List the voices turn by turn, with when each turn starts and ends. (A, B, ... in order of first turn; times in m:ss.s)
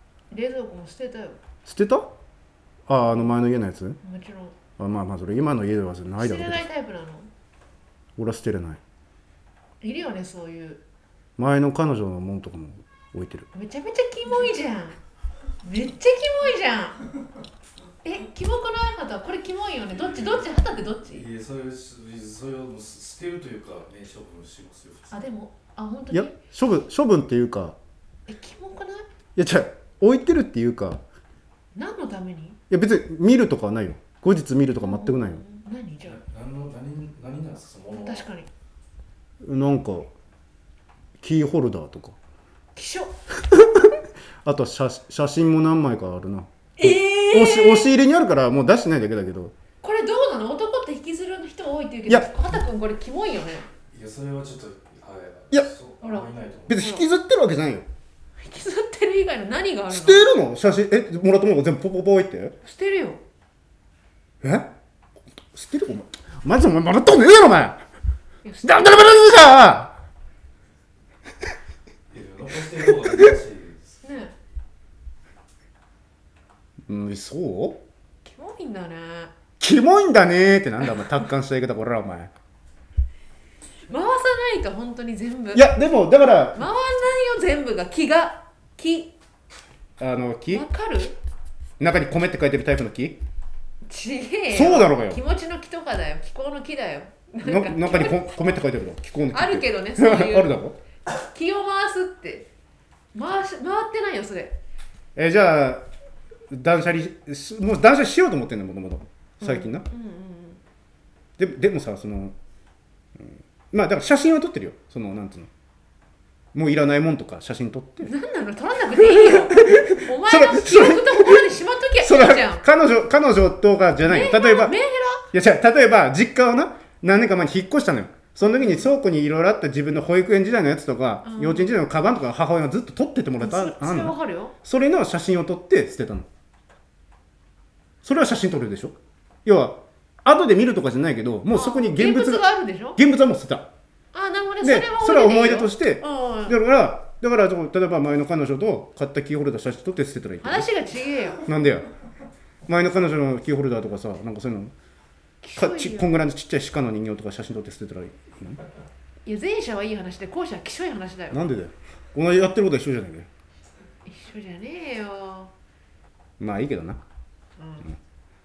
0:00.3-0:01.4 A
0:01.6-0:02.1 B
0:02.9-0:04.0 B
0:04.0-0:04.5 A
0:04.8-0:06.6 B
0:06.2-0:07.3 A
0:08.2-0:08.8 B
0:09.8-0:10.8 A
0:11.4-0:13.5 B
0:13.5-0:15.0 A
0:15.6-0:17.0 A
0:18.0-0:21.2 A
0:19.9-0:20.4 C
0:21.1-0:25.2 C
0:25.1-0:26.3 A
0:26.1-0:27.8 B
0:28.3-0:29.0 A
0:29.4-0:31.0 B
0:31.7-0:32.6 A
0:32.7-0:35.4 B
0:34.8-0:36.2 A
0:36.1-0:38.3 C
0:37.9-0:38.5 A
0:39.4-0:40.1 B
0:41.2-0:42.2 B
0:42.7-0:43.1 A
0:43.5-0:49.5 B
0:46.8-0:47.9 A
0:49.8-0:53.7 A
0:53.9-0:56.9 C
0:56.0-0:57.0 A
0:56.7-0:57.9 B
0:58.4-1:00.3 A
0:59.9-1:02.5 B
1:02.6-1:03.2 A
1:04.4-1:04.7 B
1:05.5-1:07.8 B
1:08.4-1:09.2 A
1:08.6-1:09.9 B
1:12.1-1:14.0 C
1:14.0-1:14.3 A
1:16.9-1:17.8 B
1:18.2-1:19.3 A
1:19.6-1:22.3 B
1:23.9-1:25.7 A
1:25.5-1:26.6 B
1:26.5-1:29.1 A
1:30.0-1:30.6 B
1:30.5-1:31.2 A
1:31.8-1:33.2 B
1:33.9-1:38.2 A
1:34.5-1:35.2 B
1:37.4-1:40.8 B
1:39.3-1:40.6 A
1:41.1-1:42.5 A
1:43.1-1:44.6 A
1:45.2-1:45.9 B
1:46.5-1:49.9 B
1:49.4-1:50.6 A
1:51.4-1:52.4 B
1:53.2-1:55.5 B
1:56.5-1:58.1 B
1:58.0-2:02.6 A
1:59.0-2:01.4 B
2:02.0-2:04.7 B
2:04.0-2:05.3 A
2:05.3-2:16.3 B
2:08.5-2:08.9 A
2:11.2-2:11.8 A
2:13.4-2:14.5 A
2:18.0-2:22.4 B
2:21.5-2:23.0 A
2:23.0-2:23.7 B
2:24.1-2:26.6 A
2:24.6-2:30.7 B
2:30.4-2:31.4 A
2:31.4-2:31.9 B
2:32.6-2:34.7 B
2:35.4-2:36.1 A
2:35.6-2:38.6 B
2:39.2-2:41.4 A
2:41.3-2:43.3 B
2:44.0-2:45.5 A
2:46.4-2:47.0 B
2:47.6-2:47.9 A